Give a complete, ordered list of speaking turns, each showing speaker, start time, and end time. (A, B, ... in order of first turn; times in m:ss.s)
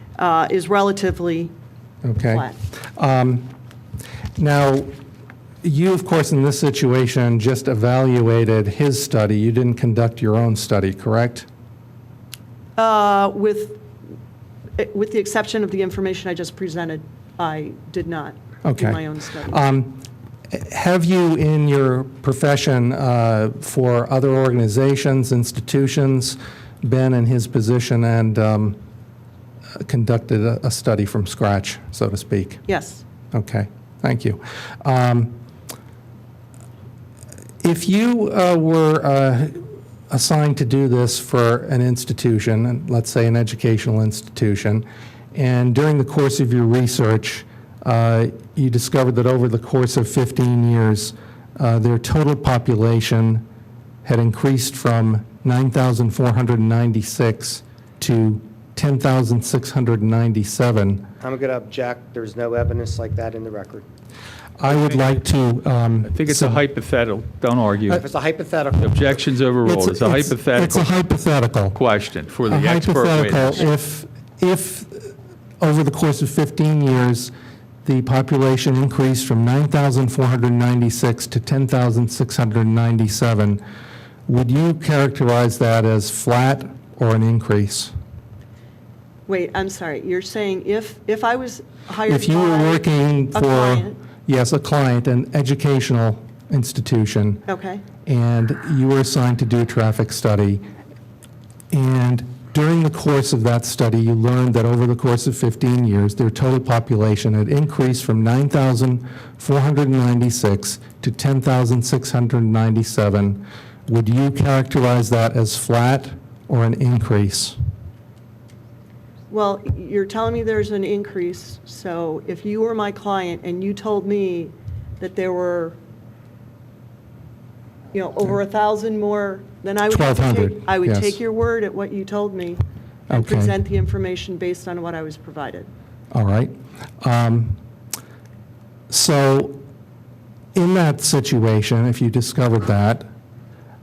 0:00.2-0:01.5 A
0:02.0-0:03.5 B
0:02.3-0:02.6 A
0:04.4-0:04.9 B
0:05.6-0:11.5 B
0:12.8-0:13.8 A
0:14.8-0:19.6 A
0:18.6-0:28.8 B
0:29.8-0:32.6 B
0:32.7-0:33.0 A
0:33.3-0:35.4 B
0:37.6-0:53.4 B
0:54.0-1:01.1 B
1:01.2-1:03.8 C
1:04.6-1:06.6 B
1:06.1-1:08.1 D
1:07.9-1:09.0 C
1:08.8-1:10.9 D
1:09.6-1:11.8 B
1:11.7-1:13.6 D
1:12.5-1:17.3 B
1:17.8-1:23.6 B
1:24.3-1:27.9 B
1:29.3-1:34.0 A
1:32.1-1:37.4 B
1:37.5-1:37.8 A
1:38.0-1:40.6 B
1:41.7-1:57.6 B
1:59.3-2:05.8 A
2:07.9-2:15.7 A
2:09.9-2:11.2 B
2:13.1-2:13.6 B
2:16.1-2:17.6 B
2:18.9-2:19.6 B
2:20.6-2:23.1 B